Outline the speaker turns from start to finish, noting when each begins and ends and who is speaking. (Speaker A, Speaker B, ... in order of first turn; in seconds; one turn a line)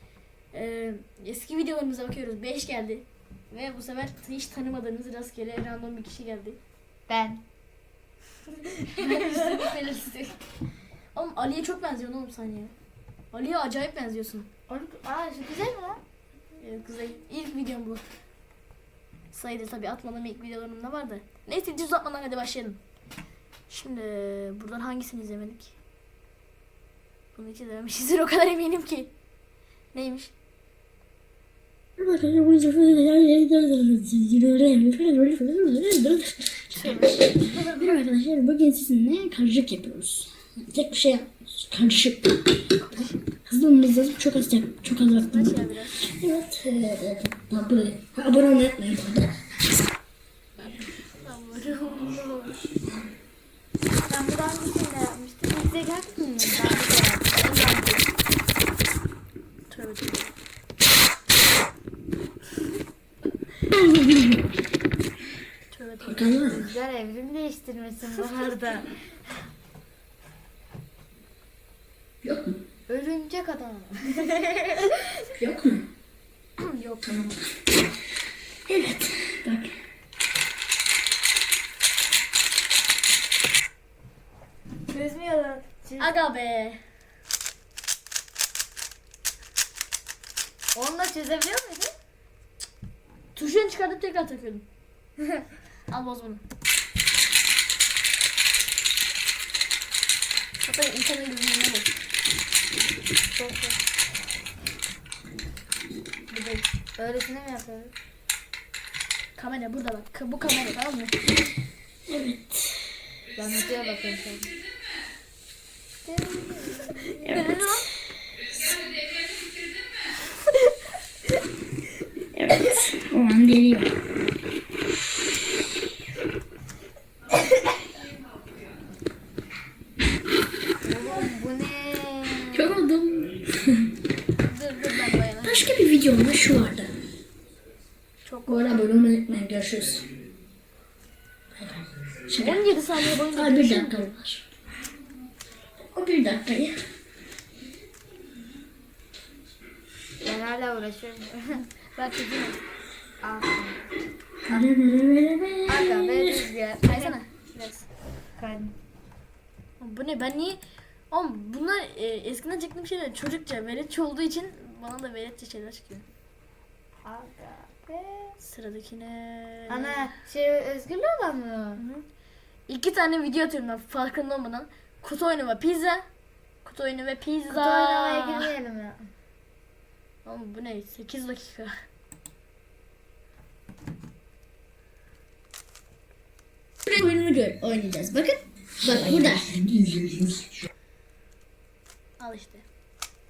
Speaker A: 0.5-6.6
Speaker B: 7.1-7.4
Speaker A: 8.9-10.4
Speaker B: 9.0-9.7
Speaker A: 11.1-12.7
Speaker A: 13.3-14.5
Speaker B: 14.7-16.0
Speaker A: 16.6-18.0
Speaker A: 19.3-22.8
Speaker A: 23.7-25.7
Speaker A: 27.4-29.1
Speaker A: 29.9-30.3
Speaker C: 32.0-42.7
Speaker A: 36.7-37.9
Speaker A: 42.8-43.2
Speaker C: 43.5-49.3
Speaker A: 45.2-46.0
Speaker A: 50.6-52.3
Speaker B: 52.0-52.6
Speaker B: 54.1-58.0
Speaker A: 57.4-58.0
Speaker A: 59.7-60.3
Speaker C: 63.8-64.3
Speaker A: 65.7-66.5
Speaker C: 66.0-66.7
Speaker B: 66.5-68.9
Speaker C: 72.2-72.6
Speaker B: 72.9-75.0
Speaker C: 75.4-75.9
Speaker A: 76.6-77.2
Speaker C: 77.0-77.4
Speaker C: 78.7-79.7
Speaker B: 84.9-86.1
Speaker A: 86.0-86.8
Speaker B: 90.7-91.9
Speaker A: 93.3-94.6
Speaker A: 95.9-96.4
Speaker A: 100.6-101.9
Speaker B: 103.4-103.8
Speaker A: 106.3-106.6
Speaker B: 107.0-107.9
Speaker A: 109.4-111.2
Speaker C: 112.1-112.8
Speaker B: 113.4-114.5
Speaker B: 116.1-117.2
Speaker C: 117.2-117.8
Speaker A: 117.3-117.8
Speaker C: 122.3-123.9
Speaker B: 130.8-132.7
Speaker C: 132.5-133.8
Speaker A: 134.4-135.7
Speaker C: 135.4-136.9
Speaker A: 138.2-138.8
Speaker C: 138.5-140.1
Speaker C: 141.6-144.4
Speaker A: 142.4-144.1
Speaker C: 145.9-146.8
Speaker B: 150.2-151.6
Speaker A: 151.9-152.6
Speaker B: 153.2-153.8
Speaker C: 154.5-156.4
Speaker B: 155.7-157.2
Speaker A: 156.8-157.9
Speaker B: 158.4-158.8
Speaker A: 159.8-160.6
Speaker A: 161.1-166.1
Speaker B: 167.0-168.3
Speaker A: 168.4-170.1
Speaker B: 169.7-171.8
Speaker A: 171.8-172.0
Speaker A: 172.7-176.0
Speaker A: 176.6-178.5
Speaker B: 177.5-179.0
Speaker A: 180.2-181.7
Speaker C: 186.8-189.6
Speaker A: 192.2-192.7